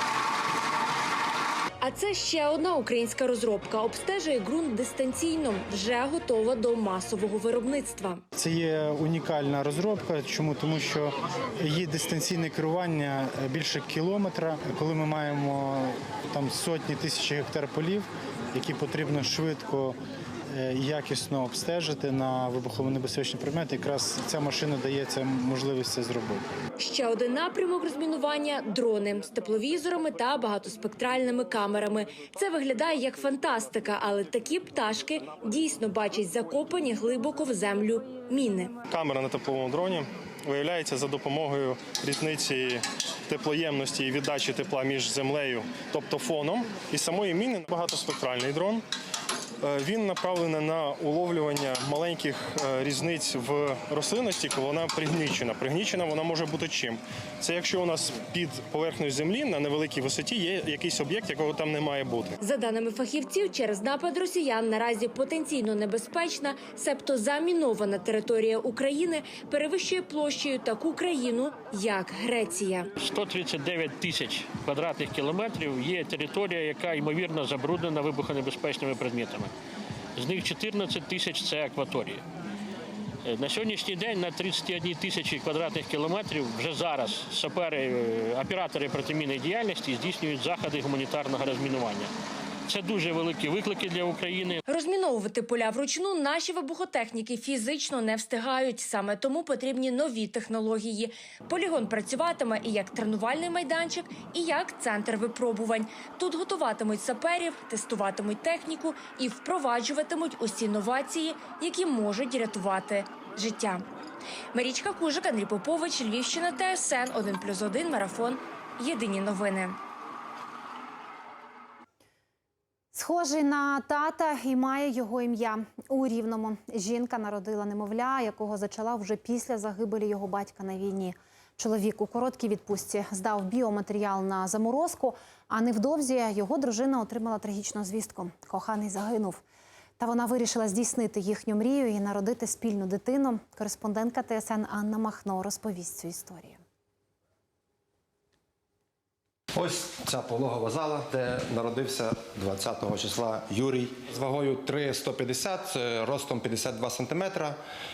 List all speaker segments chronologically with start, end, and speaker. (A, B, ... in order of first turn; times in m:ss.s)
0:01.8-0:08.2 A
0:08.4-0:20.0 B
0:20.5-0:26.4 B
0:26.8-0:38.7 A
0:38.9-0:48.8 C
0:49.6-1:02.4 C
1:02.4-1:12.9 A
1:13.0-1:19.5 D
1:20.2-1:22.2 D
1:23.2-1:32.1 D
1:32.7-1:34.6 D
1:34.7-1:53.8 A
1:54.5-1:59.8 A
2:02.9-2:19.4 E
2:20.0-2:26.6 E
2:29.5-2:37.6 F